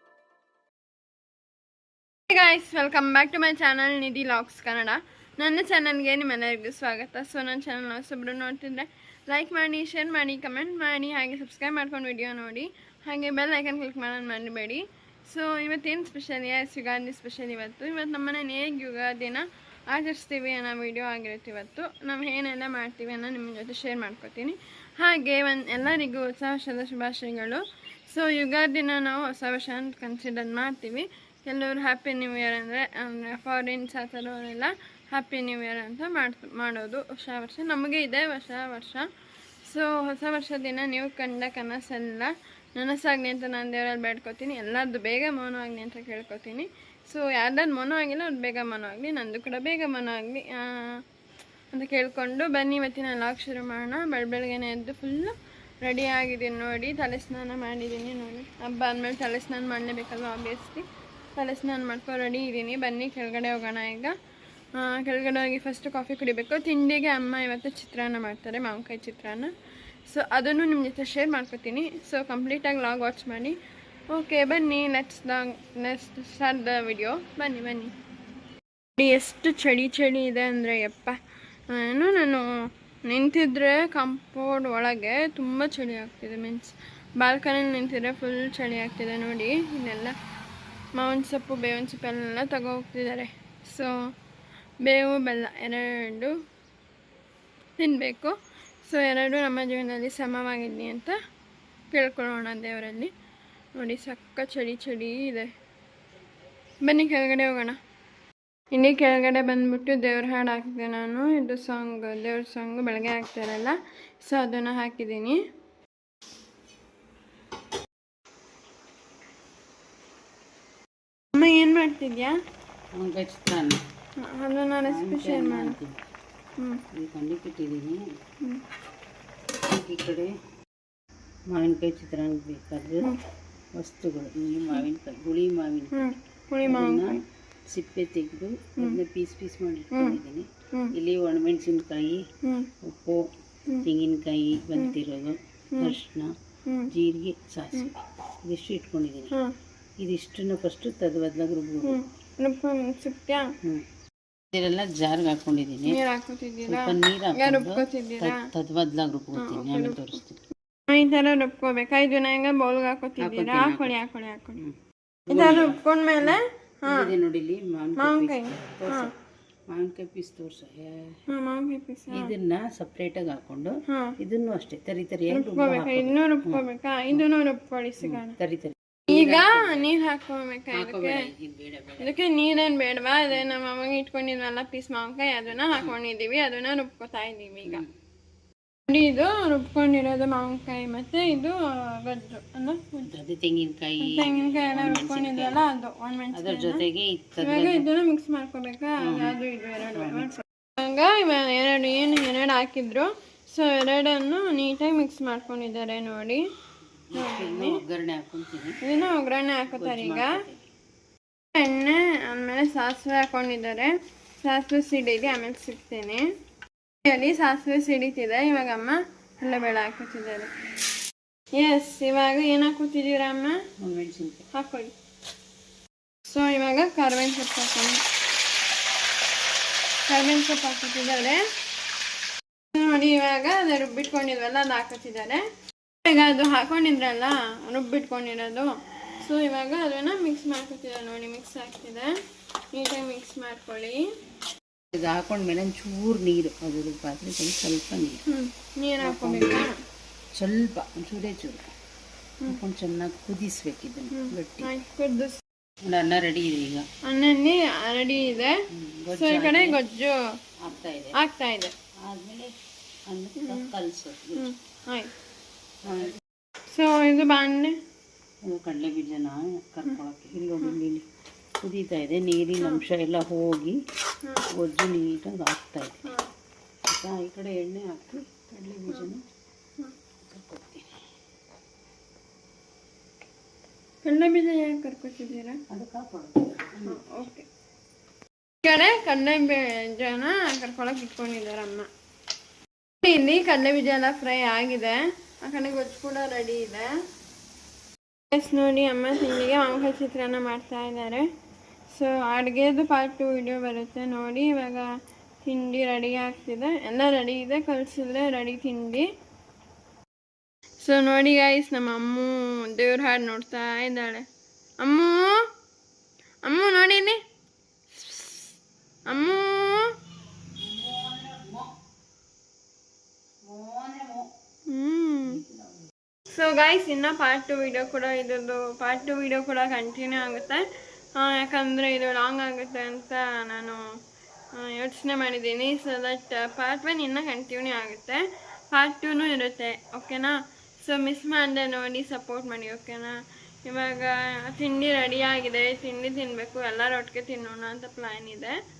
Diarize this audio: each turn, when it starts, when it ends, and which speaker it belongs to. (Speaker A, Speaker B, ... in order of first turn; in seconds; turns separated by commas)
Speaker A: 2.3-39.1, Speaker A: 39.6-51.0, Speaker A: 51.7-64.1, Speaker A: 64.8-69.5, Speaker A: 70.1-73.6, Speaker A: 74.1-77.9, Speaker A: 79.0-81.2, Speaker A: 81.7-82.5, Speaker A: 83.0-90.2, Speaker A: 91.0-93.9, Speaker A: 94.8-96.4, Speaker A: 97.8-101.2, Speaker A: 101.9-103.1, Speaker A: 103.8-105.5, Speaker A: 106.8-107.8, Speaker A: 108.7-115.4, Speaker A: 121.3-122.4, Speaker B: 123.0-123.8, Speaker A: 124.2-125.8, Speaker B: 124.9-126.0, Speaker B: 127.0-128.0, Speaker B: 129.6-130.3, Speaker B: 131.5-133.2, Speaker B: 133.8-136.1, Speaker A: 135.9-137.2, Speaker B: 136.7-142.2, Speaker A: 139.9-140.2, Speaker A: 142.4-142.7, Speaker B: 142.8-143.3, Speaker B: 143.8-146.3, Speaker A: 146.7-146.9, Speaker B: 146.9-147.9, Speaker B: 148.4-149.4, Speaker B: 150.0-152.0, Speaker A: 151.8-153.5, Speaker B: 154.5-156.0, Speaker A: 155.9-158.5, Speaker B: 156.7-160.4, Speaker A: 159.4-160.1, Speaker A: 160.9-164.6, Speaker B: 163.2-164.0, Speaker B: 165.3-169.1, Speaker A: 165.3-167.1, Speaker A: 168.0-169.1, Speaker B: 169.7-171.2, Speaker A: 171.3-172.3, Speaker B: 172.1-177.2, Speaker A: 173.9-174.2, Speaker A: 175.3-178.4, Speaker B: 178.0-179.9, Speaker A: 179.1-181.3, Speaker B: 180.7-182.2, Speaker A: 182.0-187.8, Speaker B: 187.7-187.9, Speaker A: 188.9-193.1, Speaker B: 193.1-195.6, Speaker A: 194.0-196.8, Speaker B: 196.3-197.9, Speaker A: 197.4-206.4, Speaker B: 199.0-199.4, Speaker B: 199.9-200.3, Speaker B: 207.1-208.8, Speaker A: 207.1-207.8, Speaker A: 208.8-210.4, Speaker B: 209.7-210.6, Speaker A: 211.5-216.2, Speaker A: 217.0-220.5, Speaker A: 221.6-223.6, Speaker B: 223.8-224.4, Speaker A: 224.5-224.9, Speaker A: 226.3-228.0, Speaker A: 230.1-231.4, Speaker A: 232.7-235.4, Speaker A: 236.1-242.1, Speaker A: 242.7-244.1, Speaker B: 244.9-248.2, Speaker A: 248.3-249.8, Speaker B: 249.0-249.7, Speaker B: 250.3-251.7, Speaker B: 252.5-254.7, Speaker A: 254.1-255.4, Speaker B: 255.8-256.9, Speaker A: 257.0-258.5, Speaker B: 258.7-259.8, Speaker A: 259.1-260.2, Speaker B: 260.6-261.2, Speaker A: 261.1-261.7, Speaker B: 262.1-262.5, Speaker B: 263.1-264.5, Speaker A: 263.4-263.7, Speaker A: 264.4-265.1, Speaker B: 265.8-266.1, Speaker A: 266.7-267.8, Speaker B: 268.4-271.0, Speaker B: 271.6-273.8, Speaker B: 274.6-276.1, Speaker B: 276.9-279.2, Speaker B: 280.2-280.9, Speaker A: 284.0-285.6, Speaker B: 285.7-287.0, Speaker A: 286.8-287.5, Speaker A: 288.6-291.9, Speaker A: 293.0-296.9, Speaker A: 298.3-301.3, Speaker A: 301.9-304.9, Speaker A: 305.4-309.1, Speaker A: 310.8-314.2, Speaker A: 314.8-315.4, Speaker A: 316.4-317.2, Speaker A: 317.9-319.9, Speaker B: 320.5-321.7, Speaker B: 323.4-324.3, Speaker A: 324.7-325.4, Speaker A: 326.3-330.6, Speaker A: 331.1-333.8, Speaker A: 334.5-348.6